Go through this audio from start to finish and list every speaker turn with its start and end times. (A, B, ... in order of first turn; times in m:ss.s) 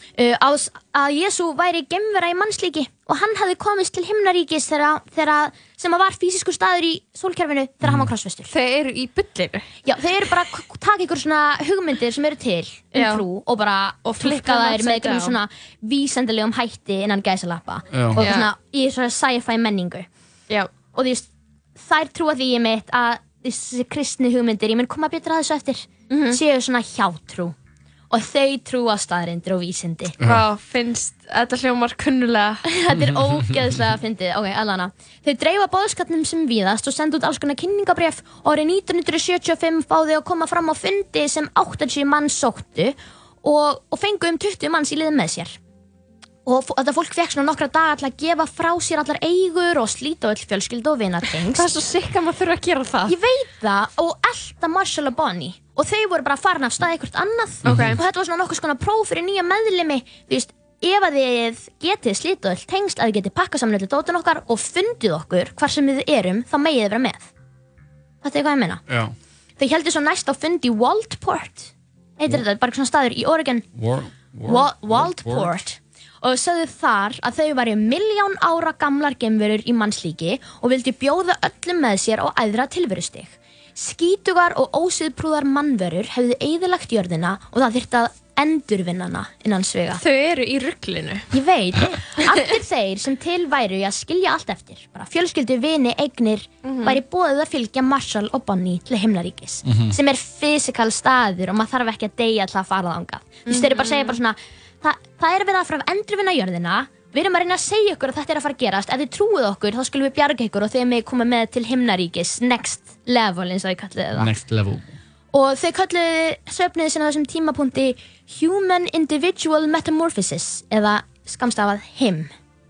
0:00.2-0:08.5 A
0:07.8-0:08.1 B
0:08.5-0:09.7 C
0:09.8-0:20.1 A
0:13.0-0:13.2 C
0:14.0-0:15.4 C
0:17.9-0:18.3 B
0:18.2-0:18.5 C
0:20.9-0:27.6 A
0:26.1-0:26.4 C
0:28.1-0:30.2 A
0:30.2-0:30.4 B
0:30.2-0:32.6 C
0:32.6-0:45.6 A
0:32.9-0:33.8 B
0:46.5-0:51.7 A
0:51.6-0:53.1 C
0:53.1-1:07.3 A
0:57.6-0:58.0 B
0:57.7-0:58.0 C
1:08.2-1:08.8 A
1:08.9-1:09.2 B
1:09.6-1:13.7 A
1:13.8-1:15.6 B
1:14.5-1:30.0 A
1:30.0-1:31.3 C
1:31.3-1:54.3 A
1:36.6-1:37.0 C
1:39.6-1:40.0 B
1:43.5-1:44.2 C
1:54.2-1:54.9 B
1:55.3-2:02.3 A